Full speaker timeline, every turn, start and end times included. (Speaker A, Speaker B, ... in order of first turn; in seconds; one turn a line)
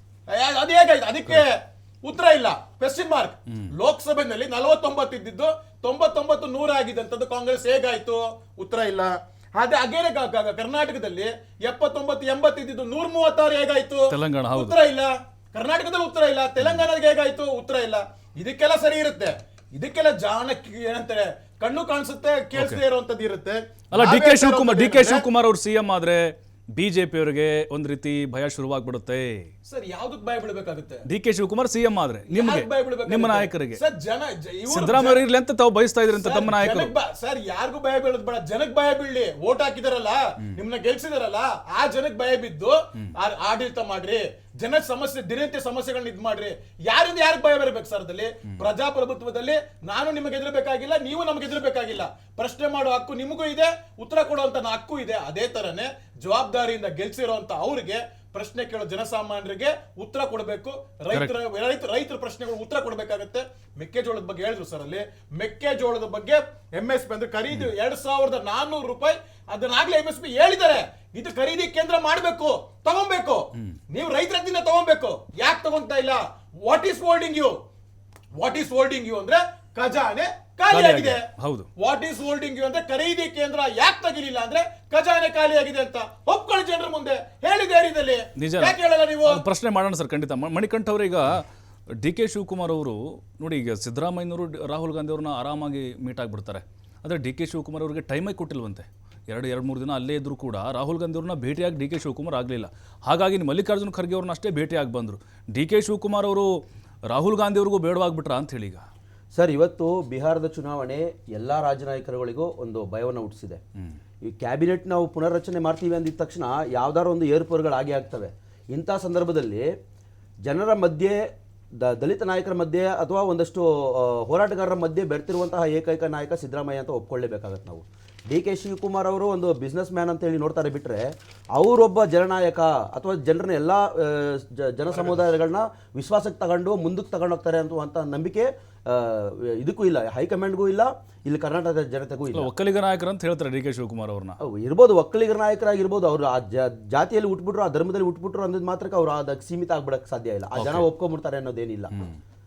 Speaker A: 0.3-25.2
Speaker B: 14.1-14.7
Speaker B: 22.5-22.8
Speaker B: 23.9-29.5
Speaker A: 29.6-31.1
Speaker B: 31.1-33.8
Speaker A: 32.3-35.2
Speaker B: 34.7-36.9
Speaker A: 36.1-77.6
Speaker A: 78.4-81.2
Speaker B: 80.7-81.7
Speaker A: 81.8-89.4
Speaker B: 88.4-91.4
Speaker B: 92.0-106.5
Speaker B: 107.1-108.8
Speaker C: 109.3-113.6
Speaker C: 114.2-119.7
Speaker C: 120.4-121.2
Speaker C: 121.8-142.5
Speaker A: 134.9-135.2
Speaker B: 142.3-144.3
Speaker C: 144.4-151.9
Speaker B: 150.5-150.9